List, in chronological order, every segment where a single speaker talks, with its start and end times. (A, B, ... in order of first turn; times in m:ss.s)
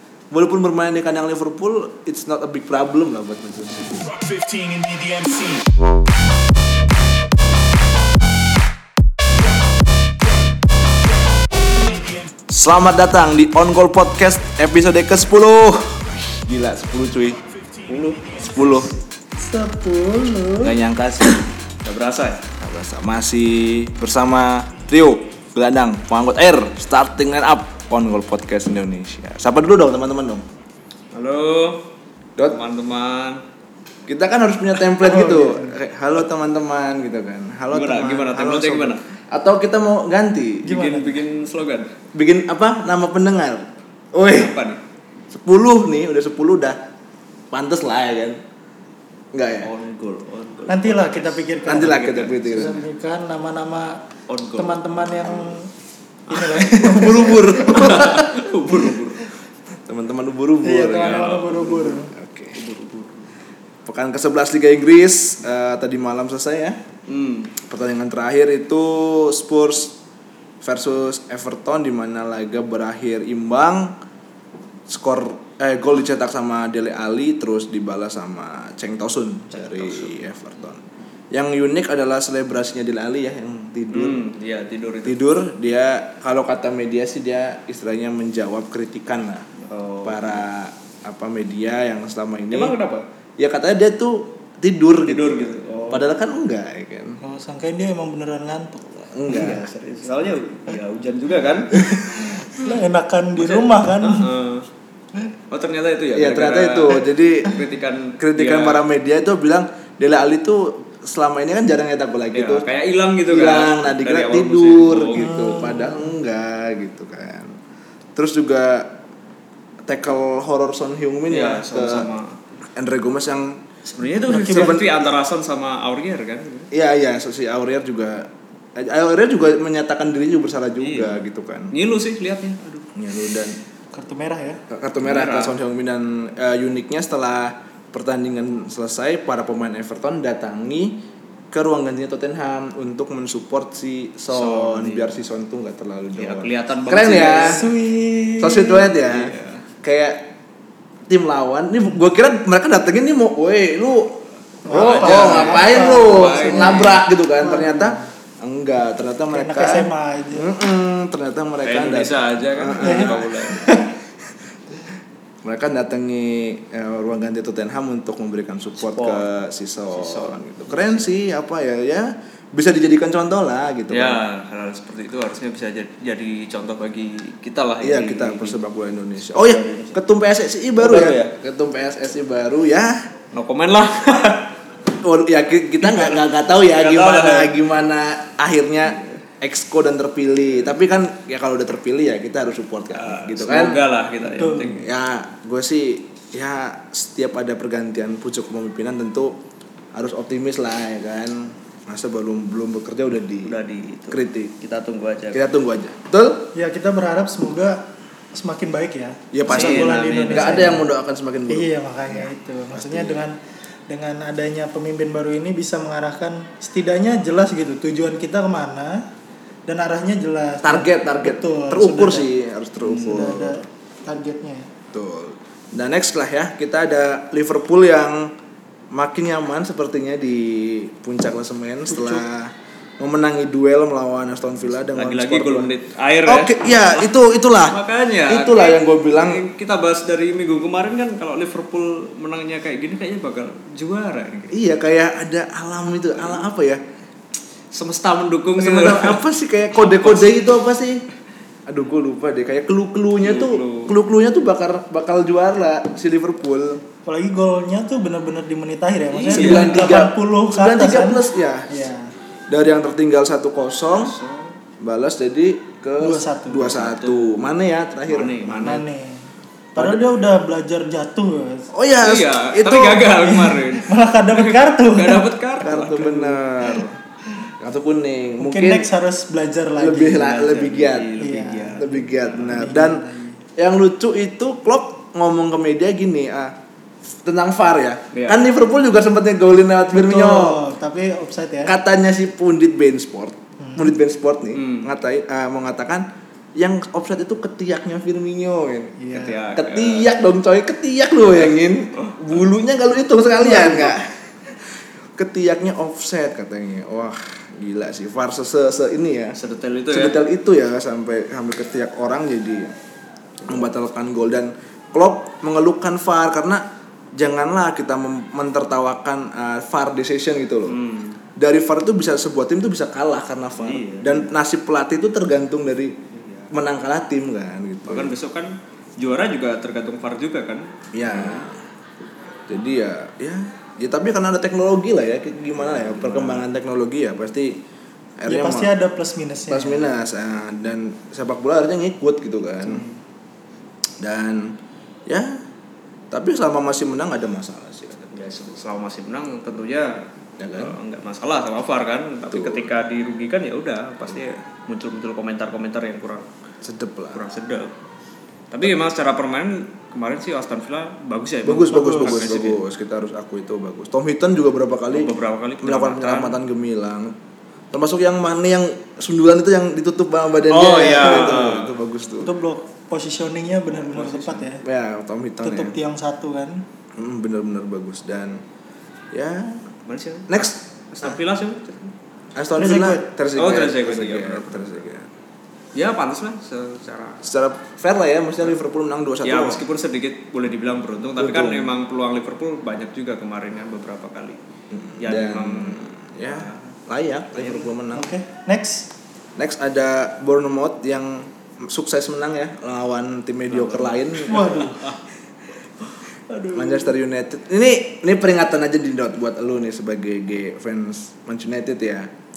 0:00.3-0:04.2 A
0:12.5-0:17.4 A
0:17.9-0:18.3 B
0:18.3-0:18.9 A
0:19.4-0:20.8 C
0:20.6-0:21.4 A
0:21.8-0:22.4 B
0:22.6-0:30.4 A
0:31.1-0:31.8 B
0:32.5-0:33.4 B
0:34.1-0:40.7 A
0:35.0-0:35.8 C
0:37.7-0:39.0 B
0:40.6-0:41.9 B
0:40.7-0:41.2 C
0:42.1-0:44.6 A
0:44.3-0:44.8 B
0:45.3-0:46.8 A
0:47.5-0:48.4 A
0:49.3-0:49.7 A
0:49.6-0:52.8 B
0:50.7-0:54.0 C
0:51.7-0:52.8 A
0:54.3-0:54.8 B
0:54.6-0:55.7 C
0:56.3-0:59.3 B
0:56.3-0:58.0 C
0:56.7-0:58.5 A
0:59.9-1:01.4 A
1:00.6-1:02.1 C
1:00.9-1:02.0 B
1:02.1-1:02.6 A
1:02.5-1:03.3 B
1:03.9-1:06.8 A
1:07.1-1:07.5 B
1:07.6-1:10.0 A
1:10.6-1:13.9 A
1:14.9-1:20.8 A
1:19.5-1:20.3 B
1:21.3-1:24.2 A
1:23.9-1:25.2 B
1:25.0-1:29.5 A
1:29.7-1:30.5 B
1:30.0-1:32.8 A
1:32.5-1:33.0 B
1:33.4-1:37.2 A
1:35.1-1:36.0 B
1:37.2-1:39.7 C
1:39.1-1:39.6 A
1:39.3-1:42.0 B
1:41.7-1:44.3 C
1:43.4-1:44.7 B
1:45.5-1:48.8 B
1:46.2-1:47.6 A
1:48.2-1:52.7 A
1:52.3-1:55.3 B
1:53.3-1:57.6 A
1:55.2-1:56.1 C
1:58.2-1:59.0 A
1:59.9-2:02.1 A
2:01.3-2:02.4 B
2:02.8-2:03.6 A
2:03.9-2:06.7 B
2:04.2-2:05.0 A
2:06.7-2:11.7 A
2:10.8-2:11.2 B
2:11.7-2:12.9 B
2:13.0-2:13.6 A
2:13.9-2:14.6 C
2:14.7-2:27.6 A
2:15.0-2:15.6 B
2:24.3-2:25.1 B
2:26.2-2:27.7 B
2:27.3-2:28.9 C
2:28.4-2:30.3 A
2:29.1-2:29.6 B
2:31.1-2:43.6 A
2:34.7-2:37.0 B
2:34.7-2:38.0 C
2:39.3-2:40.6 C
2:41.6-2:43.6 B
2:42.8-2:43.9 C
2:45.4-2:54.2 A
2:48.8-2:49.2 B
2:49.9-2:51.1 B
2:53.9-2:58.6 B
2:57.8-3:03.1 A
2:59.2-3:00.0 B
3:00.8-3:01.3 B
3:03.3-3:04.5 B
3:04.9-3:13.8 A
3:05.8-3:07.6 B
3:12.9-3:14.9 B
3:14.2-3:14.8 C
3:14.8-3:19.4 A
3:19.9-3:23.5 A
3:23.4-3:25.5 B
3:24.1-3:24.5 A
3:25.3-3:26.5 A
3:26.5-3:30.9 C
3:29.3-3:33.2 A
3:29.5-3:30.8 B
3:31.5-3:33.4 C
3:33.9-3:39.1 C
3:39.7-3:42.3 C
3:40.6-3:43.6 A
3:43.0-3:44.7 C
3:43.0-3:43.3 B
3:44.9-3:48.3 A
3:48.9-3:55.7 A
3:51.9-3:52.2 C
3:54.9-3:57.1 B
3:56.2-3:59.4 A
3:57.7-4:04.5 B
4:04.5-4:06.8 A
4:07.7-4:09.2 B
4:08.6-4:11.0 A
4:09.8-4:10.5 B
4:11.7-4:16.8 A
4:13.2-4:14.0 B
4:17.1-4:22.1 C
4:19.1-4:19.9 B
4:19.3-4:21.7 A
4:22.5-4:24.2 A
4:23.9-4:24.6 B
4:24.8-4:28.8 A
4:26.0-4:26.7 C
4:26.7-4:27.5 B
4:28.1-4:28.8 B
4:28.6-4:29.2 C
4:29.8-4:31.7 C
4:31.7-4:33.2 A
4:32.0-4:36.4 B
4:33.2-4:35.3 C
4:35.6-4:37.0 A
4:37.6-4:38.8 A
4:38.4-4:40.4 C
4:39.8-4:41.1 A
4:40.1-4:42.7 B
4:41.2-4:43.4 C
4:41.8-4:43.0 A
4:43.6-4:46.5 A
4:47.2-4:50.6 A
4:48.1-4:48.4 B
4:49.9-4:51.8 C
4:51.7-4:59.0 A
4:53.6-4:53.9 C
4:54.5-4:54.9 B
4:59.0-4:59.4 C
4:59.1-5:00.1 B
4:59.6-5:04.2 A
5:01.4-5:02.2 B
5:03.4-5:04.0 C
5:05.2-5:09.4 A
5:09.4-5:10.2 B
5:09.9-5:12.7 A
5:13.4-5:13.7 B
5:13.5-5:16.6 A
5:17.2-5:20.8 A
5:20.7-5:21.2 B
5:21.4-5:26.0 A
5:23.6-5:24.3 B
5:26.1-5:26.5 B
5:26.5-5:28.1 A
5:27.9-5:31.5 B
5:30.9-5:31.6 A
5:32.5-5:37.6 A
5:35.6-5:36.4 B
5:38.2-5:38.7 A
5:38.3-5:40.0 C
5:39.5-5:42.8 A
5:42.6-5:42.9 C
5:44.0-5:44.6 A
5:45.1-5:45.4 A
5:46.1-5:48.0 A
5:48.0-5:50.0 B
5:50.4-5:50.8 A
5:50.6-5:56.3 B
5:52.3-5:52.7 A
5:56.6-5:57.2 A
5:57.1-5:57.7 B
5:58.5-6:02.6 B
6:01.4-6:07.2 A
6:01.7-6:02.2 C
6:04.9-6:06.4 B
6:07.7-6:12.3 A
6:10.5-6:11.7 B
6:12.2-6:14.6 C
6:13.9-6:14.5 B
6:14.6-6:15.8 A
6:15.4-6:16.6 C
6:17.0-6:18.4 A
6:19.1-6:19.6 A
6:19.9-6:21.9 B
6:20.3-6:20.6 A
6:22.4-6:25.1 A
6:22.6-6:23.1 C
6:23.4-6:24.8 B
6:25.8-6:27.2 B
6:27.2-6:29.6 A
6:29.2-6:34.4 B
6:31.2-6:31.7 A
6:34.7-6:38.1 A
6:35.0-6:36.7 B
6:37.3-6:37.7 B
6:37.9-6:38.9 C
6:39.4-6:44.7 A
6:43.5-6:45.0 B
6:44.3-6:44.9 C
6:46.3-6:46.9 B
6:46.5-6:52.1 A